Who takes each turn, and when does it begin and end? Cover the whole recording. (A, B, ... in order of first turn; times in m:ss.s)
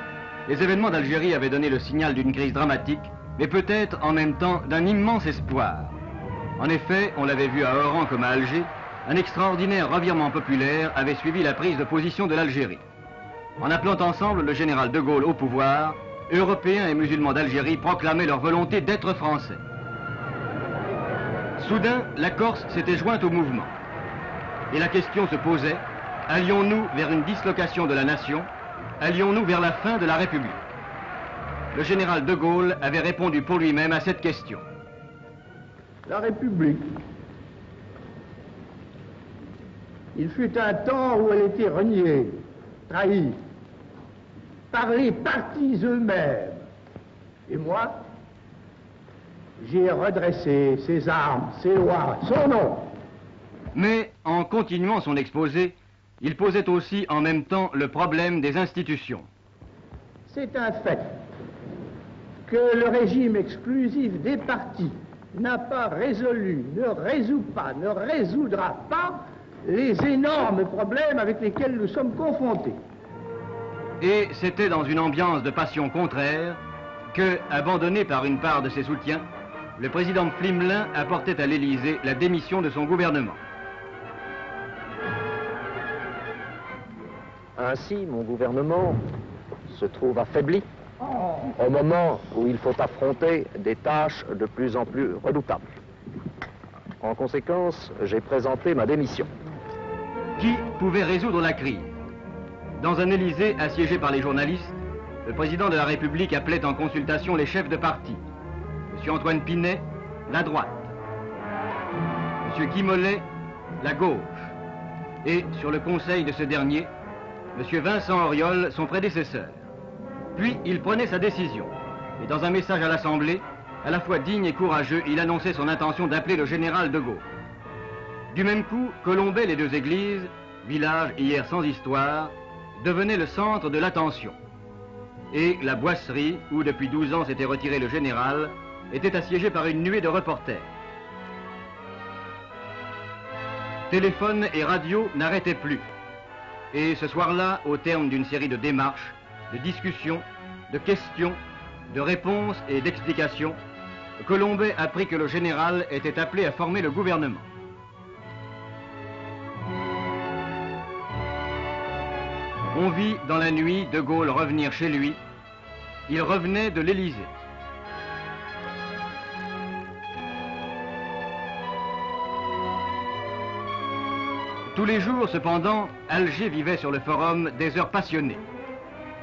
0:00.4-0:06.0 A
0:06.6-0:12.8 A
0:13.6-0:19.6 A
0:21.6-0:23.7 A
0:24.7-0:30.7 A
0:31.7-0:34.6 A
0:36.1-0:37.0 B
0:40.1-0:43.4 B
0:44.7-0:46.6 B
0:47.5-0:48.0 B
0:49.6-0:52.9 B
0:53.7-0:59.3 A
1:00.3-1:01.2 B
1:02.4-1:12.8 B
1:14.0-1:16.6 A
1:17.1-1:19.2 A
1:19.8-1:23.4 A
1:27.6-1:29.0 C
1:29.7-1:30.6 C
1:31.6-1:35.7 C
1:37.0-1:39.3 C
1:40.4-1:41.9 A
1:42.8-1:48.2 A
1:48.9-1:50.9 A
1:52.4-1:53.2 A
1:53.8-1:54.5 A
1:55.2-1:56.9 A
1:57.5-1:59.6 A
2:00.3-2:07.2 A
2:08.3-2:14.4 A
2:15.3-2:20.7 A
2:23.9-2:25.9 A
2:26.7-2:33.6 A
2:34.2-2:37.5 A
2:42.7-2:45.2 A
2:46.1-2:47.3 A
2:54.7-2:58.4 A